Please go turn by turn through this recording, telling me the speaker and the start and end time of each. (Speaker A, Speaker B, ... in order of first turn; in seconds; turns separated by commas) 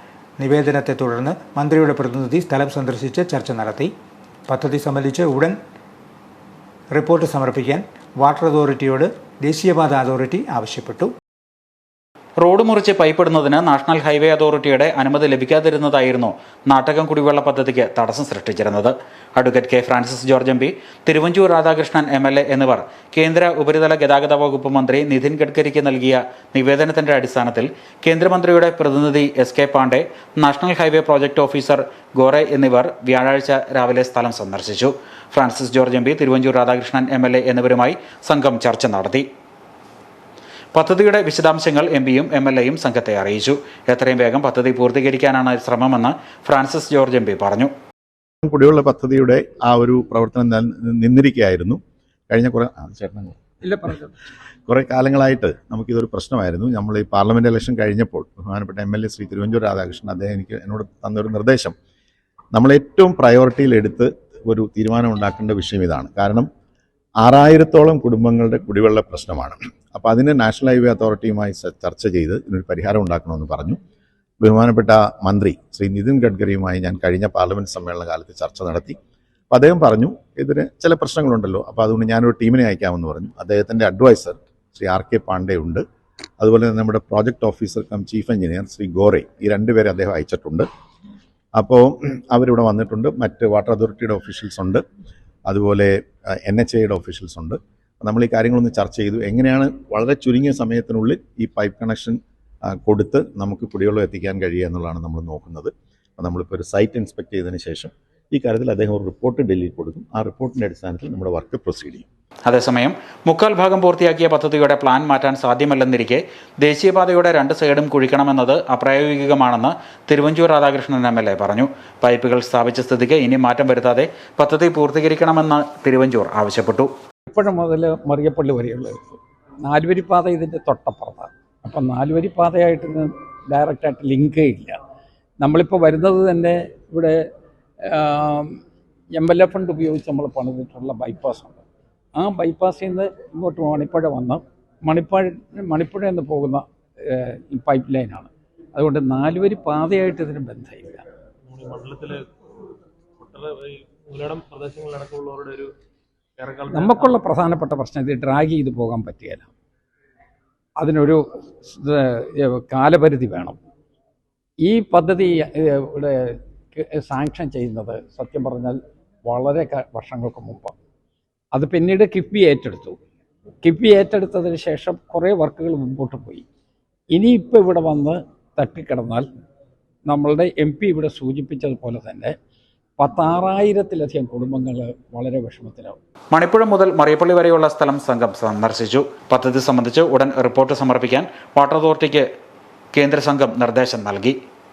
Speaker A: 0.4-3.9, Speaker A: 4.5-5.6, Speaker A: 6.9-11.1, Speaker B: 12.4-39.2, Speaker B: 40.7-47.7, Speaker C: 48.4-53.4, Speaker D: 53.6-54.1, Speaker C: 54.7-61.7, Speaker C: 62.5-66.5, Speaker C: 67.2-73.8, Speaker C: 74.4-79.0, Speaker C: 79.5-85.8, Speaker C: 86.4-90.7, Speaker C: 91.5-94.8, Speaker C: 95.5-112.0, Speaker B: 112.5-126.9, Speaker D: 127.3-134.8, Speaker D: 135.4-137.2, Speaker D: 137.8-138.6, Speaker D: 139.1-141.6, Speaker D: 142.2-151.0, Speaker E: 151.5-152.3, Speaker E: 153.2-155.7, Speaker E: 156.4-157.2, Speaker D: 156.7-159.5, Speaker D: 160.8-163.6, Speaker D: 164.6-170.7, Speaker D: 171.5-173.0, Speaker D: 173.6-176.4, Speaker D: 177.1-179.3, Speaker D: 180.1-182.3, Speaker D: 183.0-186.0, Speaker B: 186.3-192.2, Speaker B: 192.9-194.3